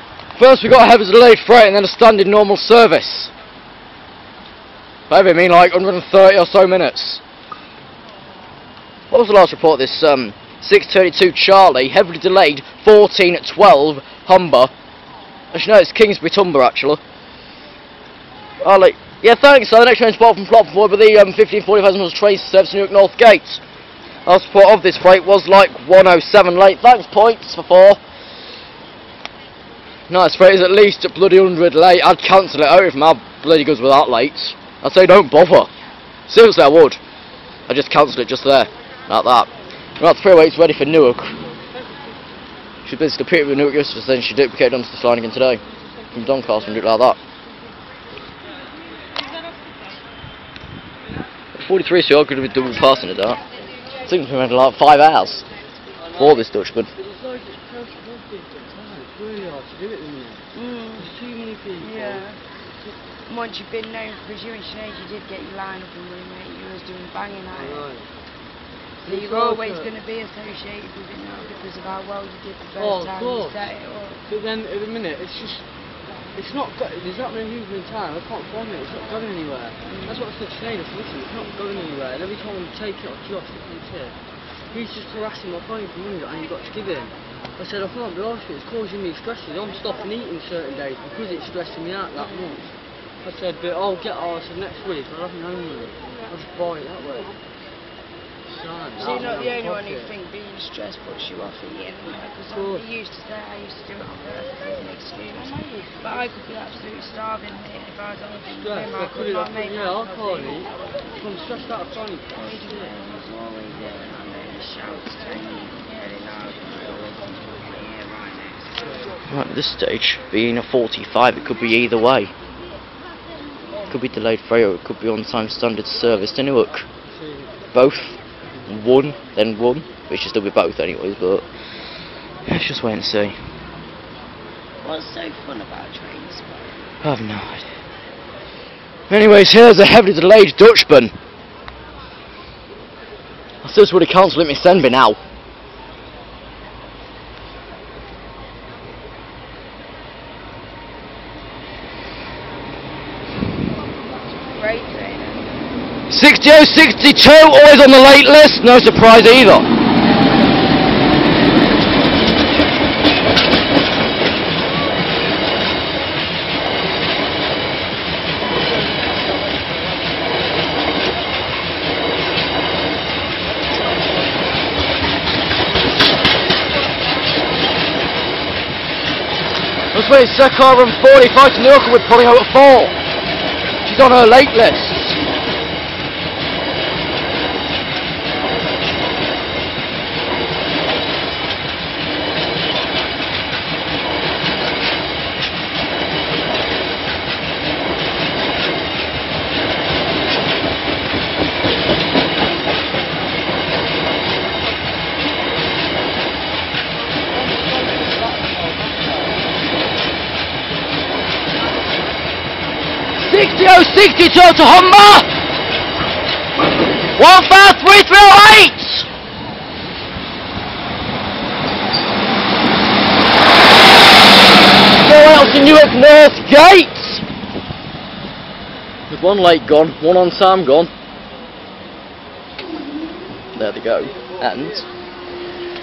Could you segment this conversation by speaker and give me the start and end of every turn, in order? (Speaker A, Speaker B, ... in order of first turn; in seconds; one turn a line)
Speaker A: 0.3-3.3
Speaker A: 5.1-7.2
Speaker A: 9.1-14.7
Speaker A: 15.5-17.0
Speaker A: 18.6-23.6
Speaker A: 24.2-28.0
Speaker A: 30.1-35.7
Speaker A: 36.3-37.0
Speaker A: 37.7-41.4
Speaker A: 42.8-45.6
Speaker A: 46.1-47.2
Speaker A: 51.5-53.4
Speaker A: 54.0-55.5
Speaker A: 56.1-56.9
Speaker B: 57.0-60.4
Speaker C: 60.5-61.1
Speaker B: 61.0-62.2
Speaker C: 61.8-62.4
Speaker C: 63.3-67.9
Speaker B: 67.6-68.0
Speaker B: 69.0-69.9
Speaker C: 69.0-74.2
Speaker B: 72.8-73.7
Speaker B: 74.3-75.6
Speaker B: 76.3-92.7
Speaker C: 79.8-80.2
Speaker C: 92.2-92.6
Speaker B: 93.2-97.3
Speaker B: 98.5-100.1
Speaker C: 99.0-110.7
Speaker B: 102.5-102.8
Speaker B: 108.5-112.9
Speaker C: 112.3-118.9
Speaker A: 119.3-122.3
Speaker A: 123.9-126.9
Speaker A: 127.7-131.4
Speaker A: 132.5-133.4
Speaker C: 134.8-136.6
Speaker A: 137.0-137.7
Speaker A: 139.1-141.1
Speaker A: 143.6-145.2
Speaker C: 154.4-155.7
Speaker A: 156.1-159.7
Speaker A: 179.9-182.9
Speaker A: 183.8-185.2
Speaker B: 208.2-208.7
Speaker A: 213.2-215.3
Speaker A: 217.2-219.1
Speaker A: 224.9-227.2
Speaker A: 229.1-230.9
Speaker A: 233.6-234.9